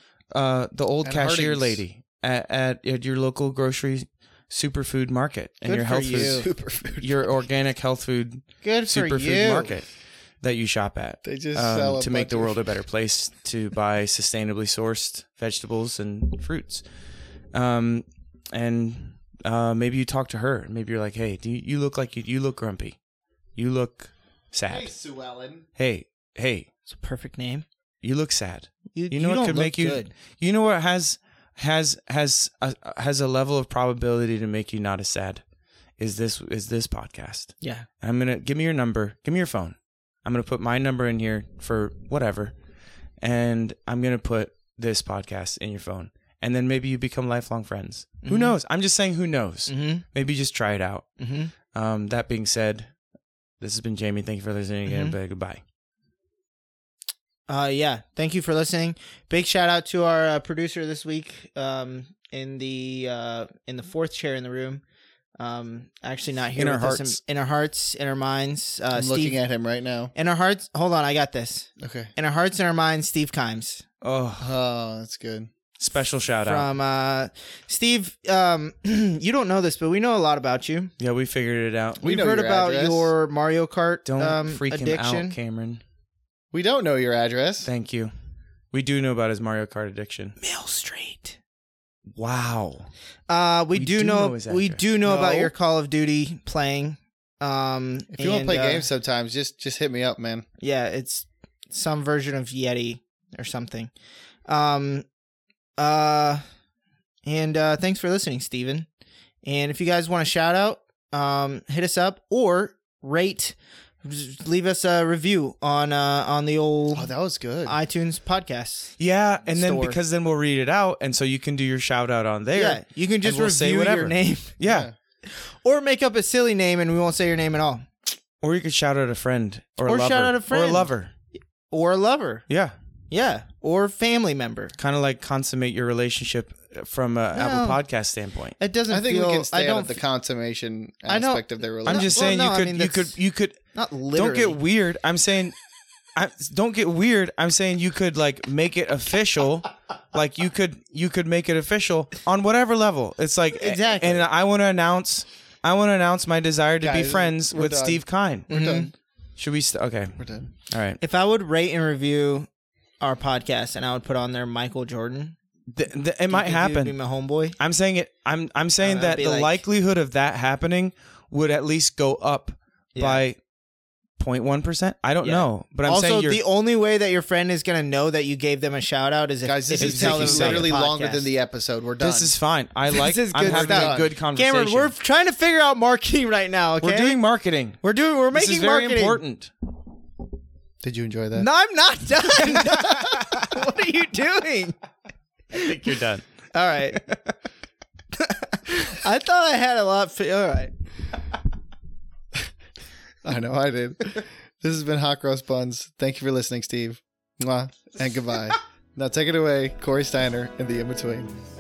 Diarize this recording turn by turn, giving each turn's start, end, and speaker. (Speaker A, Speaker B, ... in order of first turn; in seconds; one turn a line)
Speaker A: 0.3-6.5
Speaker B: 1.0-1.8
Speaker C: 5.6-6.5
Speaker B: 6.4-7.3
Speaker A: 7.0-9.8
Speaker C: 8.6-9.7
Speaker A: 10.4-16.8
Speaker B: 11.2-12.6
Speaker A: 17.5-23.0
Speaker A: 23.6-24.9
Speaker B: 24.7-25.6
Speaker A: 25.8-26.7
Speaker C: 26.9-27.6
Speaker A: 28.0-35.4
Speaker C: 28.9-30.1
Speaker A: 36.0-42.5
Speaker C: 37.6-37.9
Speaker A: 43.2-51.1
Speaker C: 48.2-48.5
Speaker C: 49.7-50.0
Speaker C: 51.2-51.5
Speaker A: 51.6-52.9
Speaker A: 53.6-55.6
Speaker C: 54.9-55.1
Speaker C: 57.5-64.8
Speaker C: 65.4-69.4
Speaker A: 66.5-67.2
Speaker B: 68.9-70.1
Speaker C: 70.1-73.8
Speaker B: 71.8-72.1
Speaker A: 74.0-74.5
Speaker B: 74.4-75.5
Speaker A: 75.8-76.7
Speaker C: 76.4-80.9
Speaker A: 81.0-82.0
Speaker C: 82.0-85.3
Speaker B: 82.0-83.1
Speaker A: 84.0-85.8
Speaker B: 86.5-87.7
Speaker A: 87.6-88.1
Speaker A: 88.7-90.3
Speaker C: 90.4-91.4
Speaker A: 92.1-92.9
Speaker C: 93.3-98.9
Speaker A: 93.7-94.8
Speaker B: 95.0-95.5
Speaker B: 98.1-100.4
Speaker C: 100.6-103.9
Speaker C: 104.5-105.0
Speaker C: 105.8-106.4
Speaker C: 107.2-108.9
Speaker C: 109.4-117.1
Speaker B: 116.9-117.8
Speaker C: 117.7-118.9
Speaker A: 119.0-124.9
Speaker C: 119.5-120.0
Speaker C: 122.5-124.6
Speaker B: 124.6-124.9
Speaker C: 125.2-127.8
Speaker A: 128.4-131.1
Speaker C: 129.8-130.9
Speaker C: 131.7-132.4
Speaker A: 132.5-132.7
Speaker C: 133.1-134.7
Speaker A: 134.8-138.5
Speaker C: 137.3-137.8
Speaker C: 138.6-140.0
Speaker B: 138.9-142.4
Speaker C: 141.1-143.2
Speaker A: 141.8-143.6
Speaker C: 143.7-144.6
Speaker A: 144.1-145.5
Speaker A: 146.2-158.5
Speaker C: 153.6-154.3
Speaker B: 156.8-158.9
Speaker C: 158.5-158.9
Speaker A: 159.4-161.0
Speaker B: 160.2-160.5
Speaker C: 161.0-162.5
Speaker C: 163.0-165.3
Speaker A: 165.7-166.9
Speaker C: 166.3-167.6
Speaker A: 167.6-173.4
Speaker C: 168.8-169.6
Speaker C: 172.9-173.2
Speaker A: 174.2-176.4
Speaker C: 175.2-181.3
Speaker B: 179.4-182.3
Speaker A: 179.8-180.7
Speaker A: 182.0-184.9
Speaker C: 182.9-187.2
Speaker B: 183.4-184.1
Speaker A: 186.8-187.8
Speaker C: 187.8-189.2
Speaker A: 188.3-189.5
Speaker B: 190.8-191.5
Speaker C: 191.3-194.7
Speaker A: 192.7-193.4
Speaker A: 195.5-196.3
Speaker C: 196.5-197.1
Speaker C: 198.2-200.7
Speaker B: 203.2-211.3